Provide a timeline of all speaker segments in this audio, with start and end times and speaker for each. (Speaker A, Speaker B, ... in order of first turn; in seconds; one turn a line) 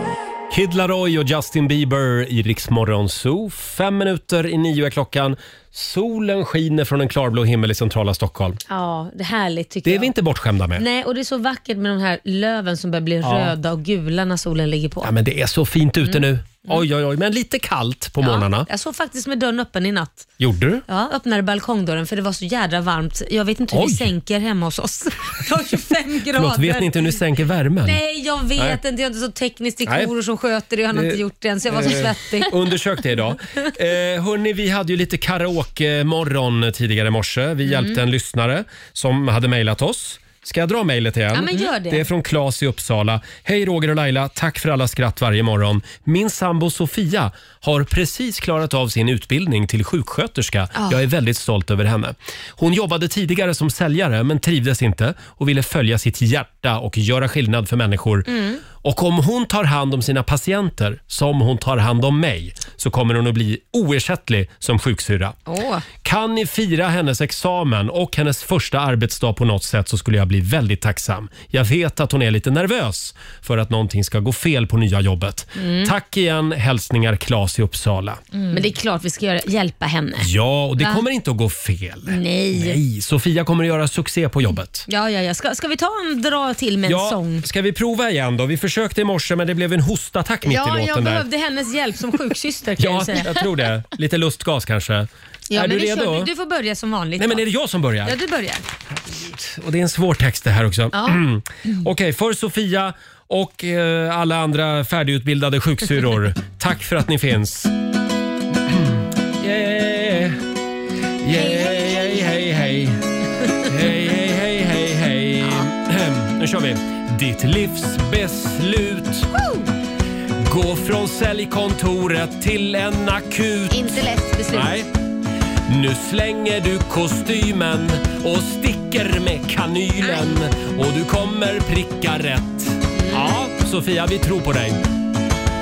Speaker A: 0.5-8.6
Speaker B: 8.7-10.1
Speaker A: 9.8-10.8
Speaker B: 10.8-15.1
Speaker A: 13.2-13.5
Speaker A: 15.0-18.7
Speaker B: 16.0-16.8
Speaker B: 18.2-20.3
Speaker A: 20.4-20.8
Speaker B: 20.9-27.2
Speaker A: 23.7-24.1
Speaker A: 26.4-28.0
Speaker B: 27.8-33.2
Speaker A: 30.9-65.4
Speaker B: 37.6-38.0
Speaker B: 41.3-42.0
Speaker B: 50.8-51.0
Speaker B: 58.3-58.6
Speaker B: 65.5-65.8
Speaker A: 66.0-78.2
Speaker B: 75.6-75.9
Speaker B: 78.5-81.0
Speaker A: 80.2-84.8
Speaker B: 82.1-82.8
Speaker B: 84.9-87.4
Speaker A: 86.8-91.2
Speaker B: 90.4-93.5
Speaker A: 92.8-96.3
Speaker B: 95.5-97.4
Speaker A: 97.2-98.1
Speaker B: 98.0-98.7
Speaker A: 99.0-107.7
Speaker B: 100.9-101.2
Speaker A: 108.7-110.4
Speaker A: 111.2-113.0
Speaker B: 111.3-112.4
Speaker A: 113.7-119.3
Speaker B: 119.3-119.7
Speaker A: 120.4-124.9
Speaker B: 123.7-124.7
Speaker A: 125.7-134.8
Speaker B: 132.9-133.4